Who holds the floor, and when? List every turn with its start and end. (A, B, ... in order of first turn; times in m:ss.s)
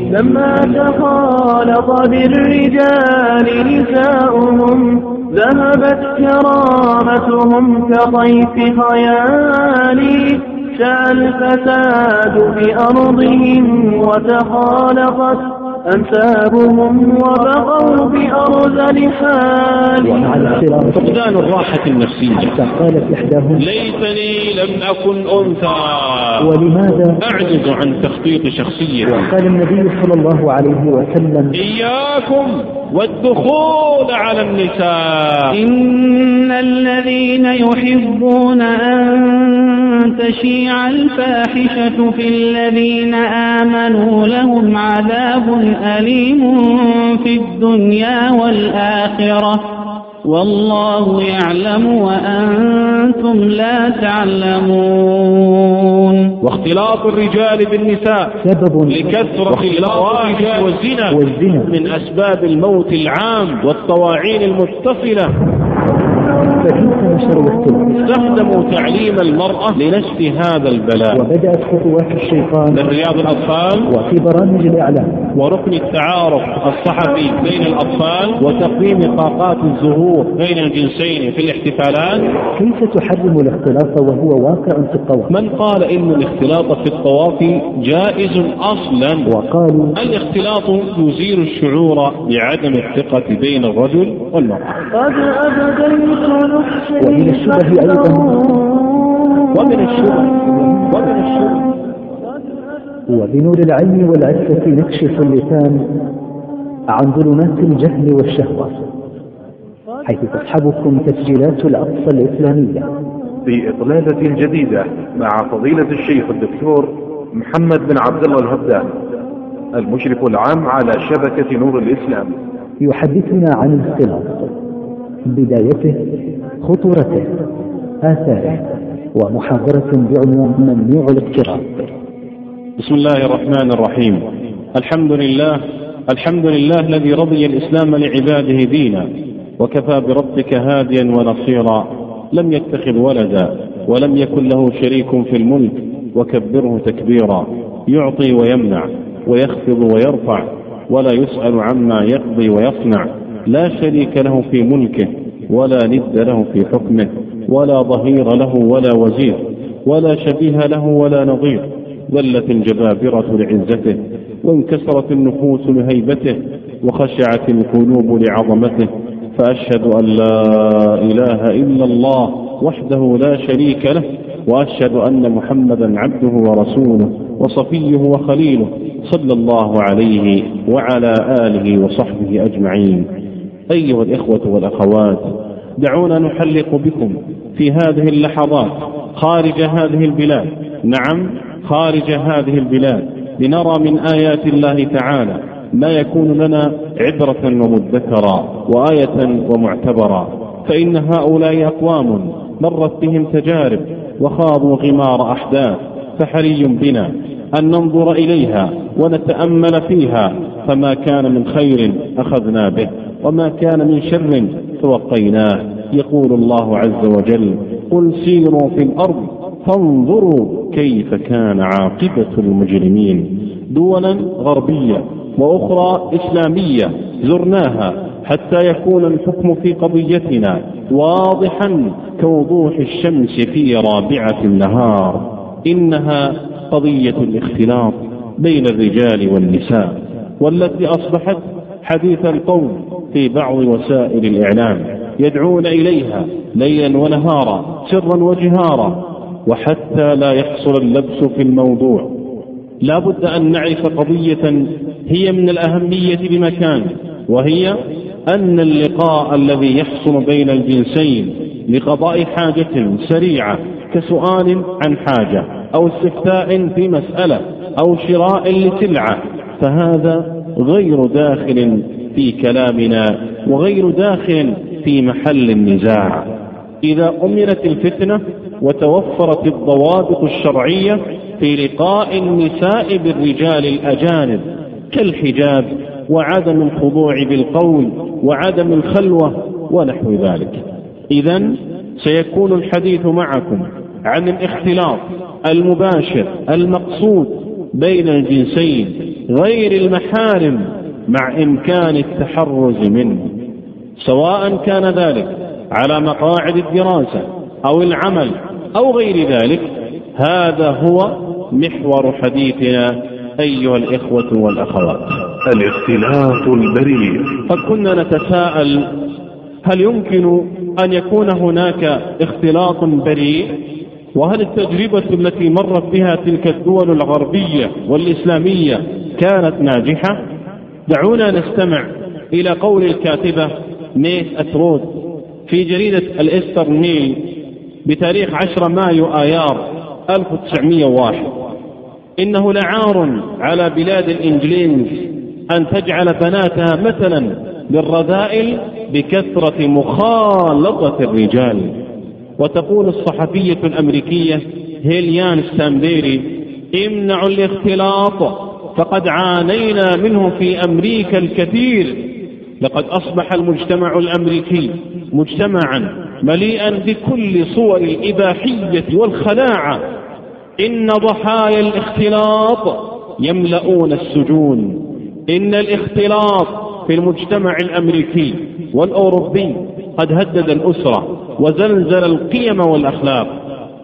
0:00.1-0:20.4 A
0:20.0-0:21.2 B
0:20.9-0:22.5 C
0:22.4-0:23.7 B
0:23.6-0:26.4 C
0:26.4-0:27.2 B
0:27.2-0:29.2 C
0:29.0-0:31.6 B
0:31.5-0:35.6 C
0:35.5-0:56.3 D
0:56.4-1:05.3 C
0:58.4-1:00.6 B
1:01.1-1:01.7 B
1:06.6-1:07.9 B
1:07.9-1:11.2 C
1:11.1-1:12.8 B
1:12.7-1:13.9 C
1:13.9-1:15.3 B
1:15.3-1:22.4 C
1:22.6-1:25.4 B
1:25.3-1:29.3 C
1:29.2-1:30.0 B
1:30.0-1:34.8 C
1:34.9-1:39.6 A
1:37.0-1:38.4 B
1:39.5-1:41.6 C
1:43.1-1:46.0 B
1:46.9-1:48.8 B
1:50.1-1:52.9 B
1:53.4-1:58.9 E
1:59.7-2:02.4 E
2:02.8-2:04.5 B
2:05.2-2:07.4 B
2:08.0-2:11.9 B
2:12.8-2:19.1 C
2:19.6-3:03.1 C
3:03.7-3:05.3 C
3:05.8-4:12.1 C
4:12.8-4:36.3 C
4:36.8-5:03.3 C
5:04.0-5:15.2 C
5:15.4-5:17.4 E
5:17.5-5:19.0 C
5:19.6-5:23.6 C
5:24.1-5:30.2 C
5:30.9-5:34.9 C
5:35.5-5:37.3 C
5:37.8-5:41.3 C
5:42.2-5:51.7 C
5:52.4-6:09.8 C
6:10.6-6:23.3 C